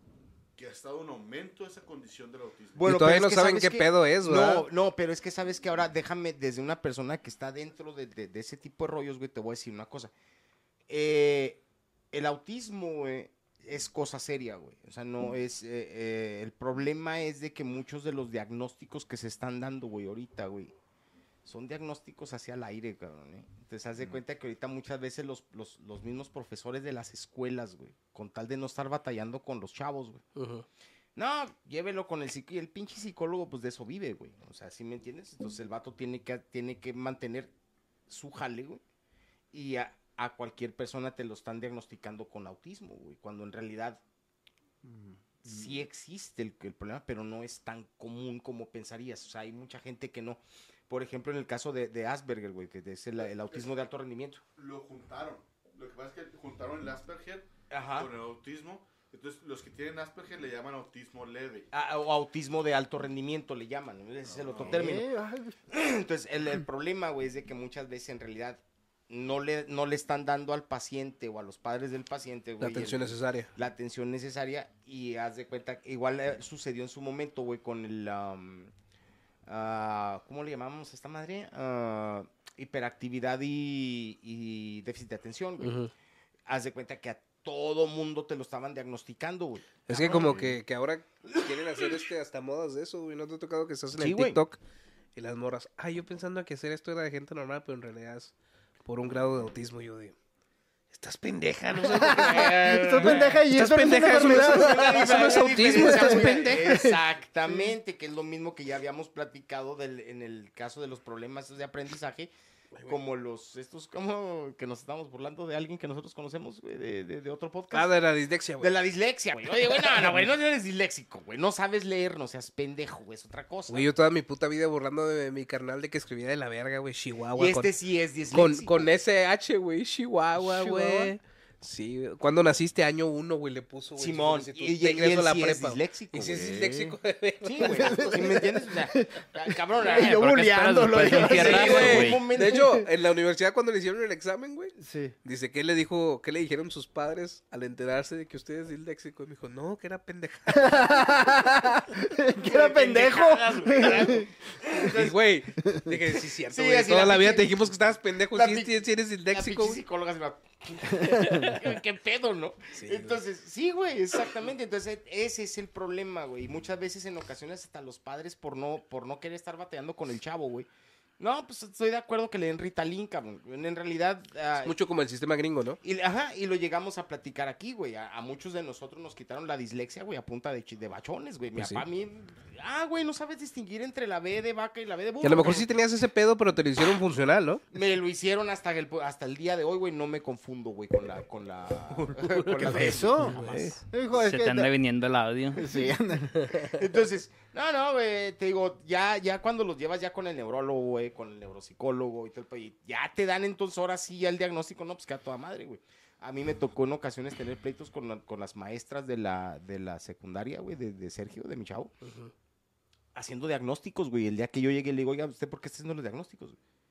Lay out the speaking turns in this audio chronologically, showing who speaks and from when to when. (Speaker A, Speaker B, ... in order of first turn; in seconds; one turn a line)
Speaker A: 0.6-2.9
Speaker B: 2.8-10.1
Speaker C: 2.8-4.7
Speaker B: 10.9-11.6
Speaker B: 12.1-20.7
Speaker B: 21.5-30.2
Speaker C: 30.4-30.6
Speaker B: 31.2-37.5
Speaker B: 38.1-38.8
Speaker B: 39.5-44.0
Speaker D: 44.9-45.1
Speaker B: 45.4-54.4
Speaker A: 54.6-61.7
Speaker B: 57.7-58.1
Speaker B: 61.7-65.1
Speaker D: 64.5-65.6
Speaker B: 65.7-78.7
Speaker C: 72.6-73.5
Speaker B: 79.5-85.8
Speaker C: 85.6-85.9
Speaker B: 86.5-90.4
Speaker C: 89.9-94.6
Speaker D: 90.0-90.5
Speaker B: 94.0-94.4
Speaker C: 95.2-98.3
Speaker C: 98.8-100.2
Speaker C: 100.9-106.8
Speaker D: 101.8-107.0
Speaker B: 102.1-103.4
Speaker B: 104.0-112.3
Speaker B: 112.8-118.0
Speaker C: 117.7-118.7
Speaker B: 118.6-123.9
Speaker C: 119.9-120.2
Speaker C: 123.7-127.8
Speaker B: 127.3-128.9
Speaker C: 128.3-138.4
Speaker D: 130.4-131.2
Speaker B: 134.0-136.6
Speaker D: 136.3-137.0
Speaker B: 137.4-142.7
Speaker D: 137.6-140.3
Speaker E: 139.9-142.3
Speaker C: 141.1-151.0
Speaker D: 142.5-142.9
Speaker D: 144.8-145.1
Speaker D: 150.5-155.1
Speaker B: 152.4-155.1
Speaker C: 154.8-159.8
Speaker D: 155.6-155.9
Speaker B: 156.5-157.6
Speaker B: 158.3-170.7
Speaker C: 161.1-161.6
Speaker C: 162.8-163.2
Speaker B: 171.2-174.8
Speaker C: 174.6-175.8
Speaker B: 175.8-185.7
Speaker C: 181.6-181.8
Speaker C: 185.2-187.6
Speaker B: 187.7-193.8
Speaker C: 192.2-193.8
Speaker D: 192.7-194.7
Speaker E: 194.2-195.7
Speaker D: 195.5-196.7
Speaker B: 196.6-211.9
Speaker C: 212.0-212.3
Speaker B: 213.2-216.6